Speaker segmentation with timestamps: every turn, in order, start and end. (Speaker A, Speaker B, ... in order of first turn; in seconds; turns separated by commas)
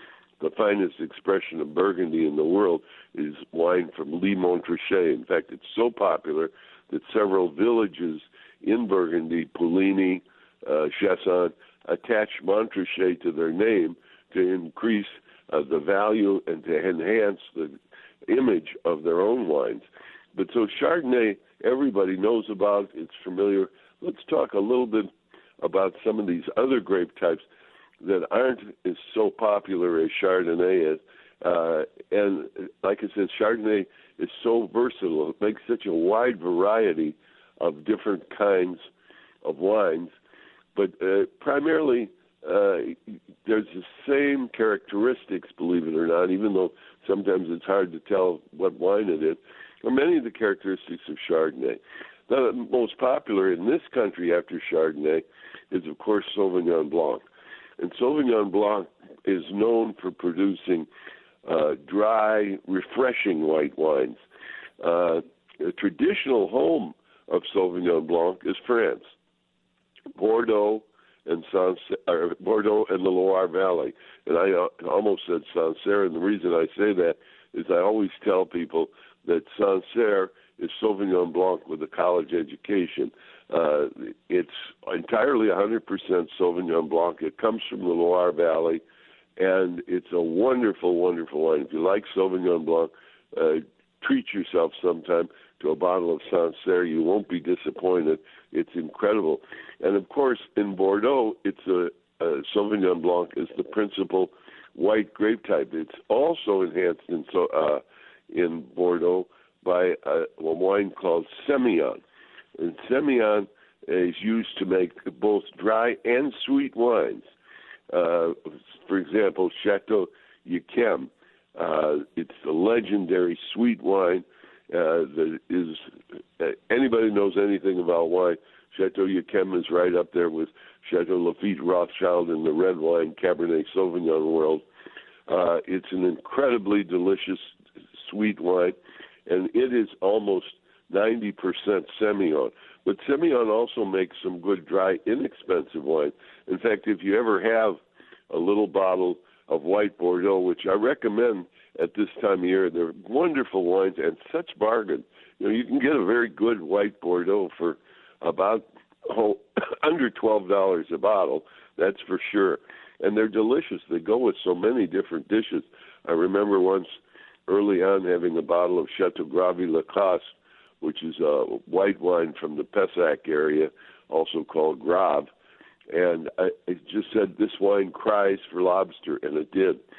Speaker A: 0.4-17.8, Speaker A: 18.3-27.4, Speaker A: 28.0-38.8, Speaker A: 39.4-40.1, Speaker A: 40.7-57.2, Speaker A: 57.8-60.9, Speaker A: 61.4-64.2, Speaker A: 64.8-69.1, Speaker A: 70.1-88.8, Speaker A: 89.4-112.0, Speaker A: 112.6-117.3, Speaker A: 117.9-125.8, Speaker A: 126.4-134.6, Speaker A: 135.3-166.9, Speaker A: 167.5-175.3, Speaker A: 175.9-179.8